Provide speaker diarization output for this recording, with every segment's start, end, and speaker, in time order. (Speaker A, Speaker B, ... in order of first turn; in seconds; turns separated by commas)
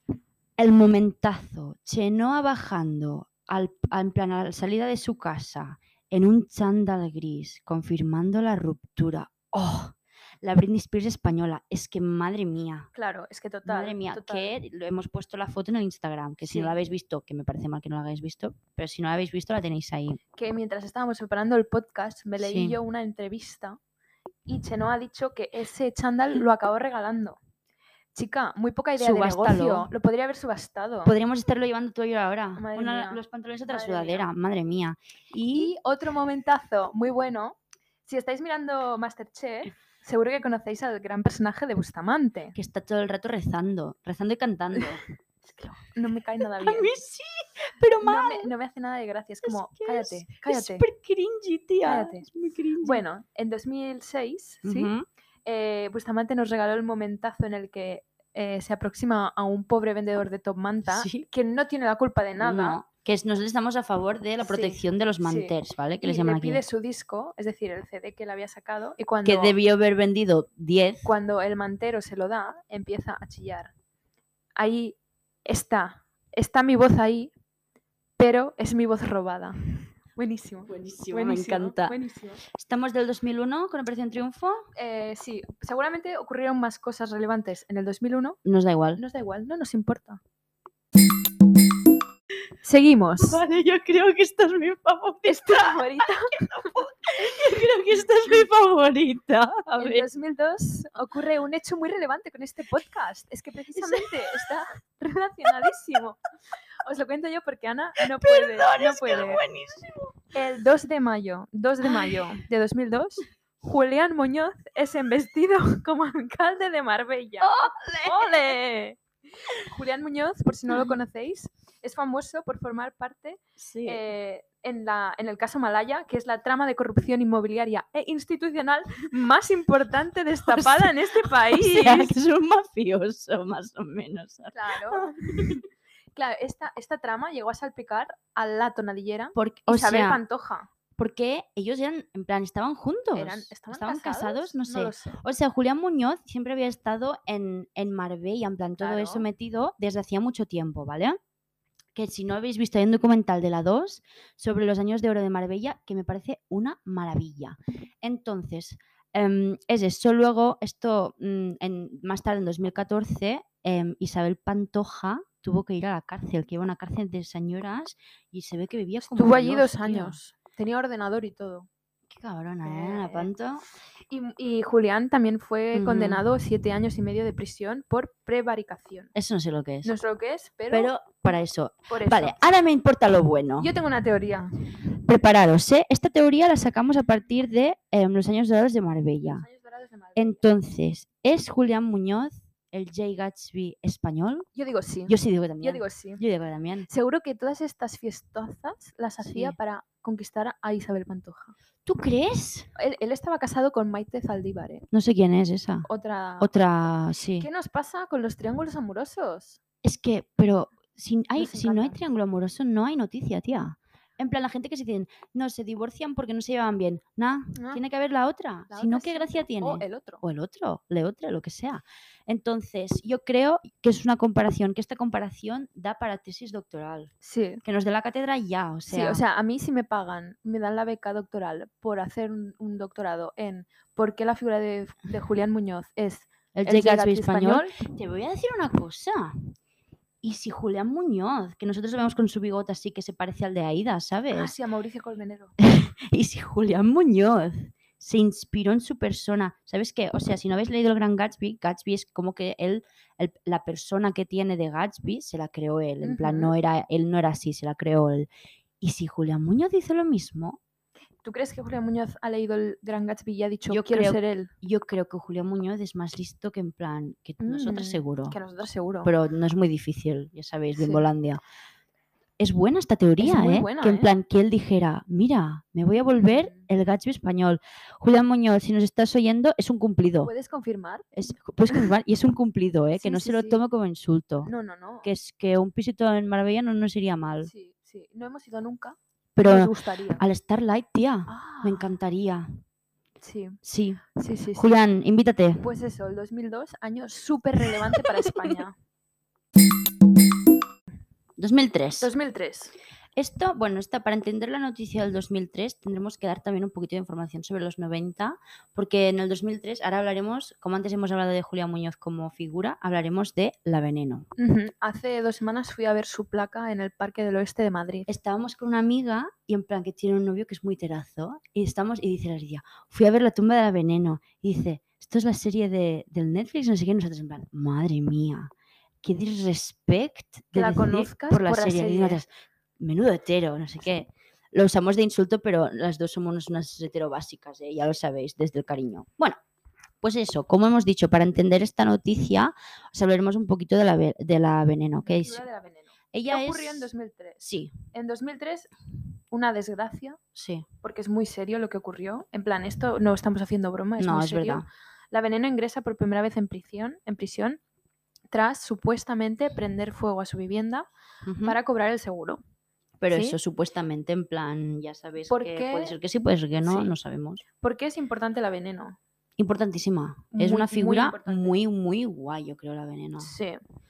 Speaker A: 0.6-12.9, Speaker B: 12.9-14.5, Speaker A: 13.6-20.2, Speaker B: 16.4-16.7, Speaker B: 20.4-23.8, Speaker A: 22.4-22.8, Speaker B: 24.5-27.4, Speaker B: 28.1-31.1, Speaker A: 29.0-29.9, Speaker A: 31.0-35.7, Speaker B: 32.5-34.3, Speaker B: 35.5-42.5, Speaker A: 42.5-45.0, Speaker B: 45.4-46.9, Speaker A: 46.4-48.5, Speaker B: 48.0-50.9, Speaker A: 49.4-53.0, Speaker B: 51.8-52.2, Speaker B: 52.8-54.9, Speaker A: 54.6-55.0, Speaker B: 55.4-62.8, Speaker A: 60.9-61.2, Speaker A: 62.4-66.6, Speaker B: 64.4-69.5, Speaker A: 69.2-71.1, Speaker B: 71.0-73.7, Speaker B: 74.5-77.3, Speaker B: 78.2-79.6, Speaker B: 80.1-82.4, Speaker A: 80.7-82.0, Speaker A: 82.5-84.7, Speaker B: 84.7-88.4, Speaker A: 88.4-89.0, Speaker B: 89.0-90.2, Speaker B: 92.6-93.4, Speaker A: 93.2-95.8, Speaker B: 95.2-96.3, Speaker A: 96.4-100.1, Speaker B: 99.8-106.2, Speaker A: 103.7-104.5, Speaker B: 106.8-109.4, Speaker A: 108.0-110.2, Speaker B: 110.3-119.0, Speaker A: 111.8-112.3, Speaker A: 117.4-118.5, Speaker B: 119.5-132.1, Speaker A: 120.7-121.0, Speaker A: 123.6-124.0, Speaker A: 130.5-135.6, Speaker B: 134.5-135.6, Speaker B: 136.1-140.7, Speaker A: 139.3-140.2, Speaker A: 141.0-151.2, Speaker B: 143.1-145.2, Speaker B: 148.8-149.3, Speaker A: 151.9-170.2, Speaker B: 169.0-171.7, Speaker A: 172.1-173.7, Speaker B: 172.6-173.3, Speaker B: 174.1-179.1, Speaker A: 175.7-176.2, Speaker A: 179.1-179.9, Speaker B: 179.8-180.9, Speaker A: 180.7-183.7, Speaker B: 181.9-182.4, Speaker B: 183.6-184.5, Speaker A: 185.0-189.4, Speaker B: 189.2-190.4, Speaker A: 190.2-194.5, Speaker B: 194.5-196.2, Speaker A: 195.1-196.9, Speaker B: 196.9-201.5, Speaker A: 199.2-199.6, Speaker A: 201.8-202.7, Speaker B: 202.8-204.9, Speaker A: 204.9-205.9, Speaker B: 205.8-206.5, Speaker A: 206.4-207.5, Speaker B: 207.4-209.6, Speaker A: 209.8-227.1, Speaker B: 211.4-212.0, Speaker B: 217.5-217.8, Speaker B: 218.7-220.2, Speaker B: 227.2-227.6, Speaker A: 227.6-229.2, Speaker B: 228.9-237.7, Speaker A: 236.5-239.5, Speaker A: 240.2-244.6, Speaker B: 244.3-245.5, Speaker A: 245.6-258.3, Speaker B: 256.0-256.5, Speaker A: 258.8-260.6, Speaker B: 261.2-264.5, Speaker A: 263.7-268.4, Speaker B: 267.4-269.1, Speaker A: 269.0-271.4, Speaker B: 270.7-271.0, Speaker A: 272.4-280.3, Speaker B: 273.2-274.1, Speaker B: 276.0-276.7, Speaker B: 280.2-281.1, Speaker A: 281.1-284.5, Speaker B: 283.0-283.6, Speaker B: 284.4-285.1, Speaker A: 285.0-287.5, Speaker B: 287.4-290.2, Speaker A: 289.4-292.6, Speaker B: 291.3-291.9, Speaker B: 293.2-293.6, Speaker A: 293.6-294.0, Speaker B: 294.1-294.7, Speaker A: 294.5-295.6, Speaker B: 295.6-298.7, Speaker A: 298.2-298.5, Speaker A: 301.4-302.1, Speaker B: 302.0-302.7, Speaker A: 303.1-314.3, Speaker B: 314.4-318.1, Speaker A: 318.1-328.5, Speaker A: 329.0-332.3, Speaker B: 330.5-332.2, Speaker A: 332.8-339.4, Speaker A: 340.0-345.4, Speaker B: 345.0-347.4, Speaker A: 346.1-346.9, Speaker A: 347.4-347.7, Speaker B: 347.9-348.7, Speaker B: 349.3-350.2, Speaker A: 350.3-350.6, Speaker B: 350.8-357.6, Speaker A: 354.0-354.6, Speaker B: 358.3-360.9, Speaker A: 361.2-361.6, Speaker B: 361.4-362.4, Speaker A: 363.0-367.4, Speaker B: 363.1-363.4, Speaker B: 365.3-365.9, Speaker B: 366.6-366.9, Speaker B: 367.6-369.0, Speaker A: 369.4-373.3, Speaker B: 370.3-371.6, Speaker B: 373.2-373.6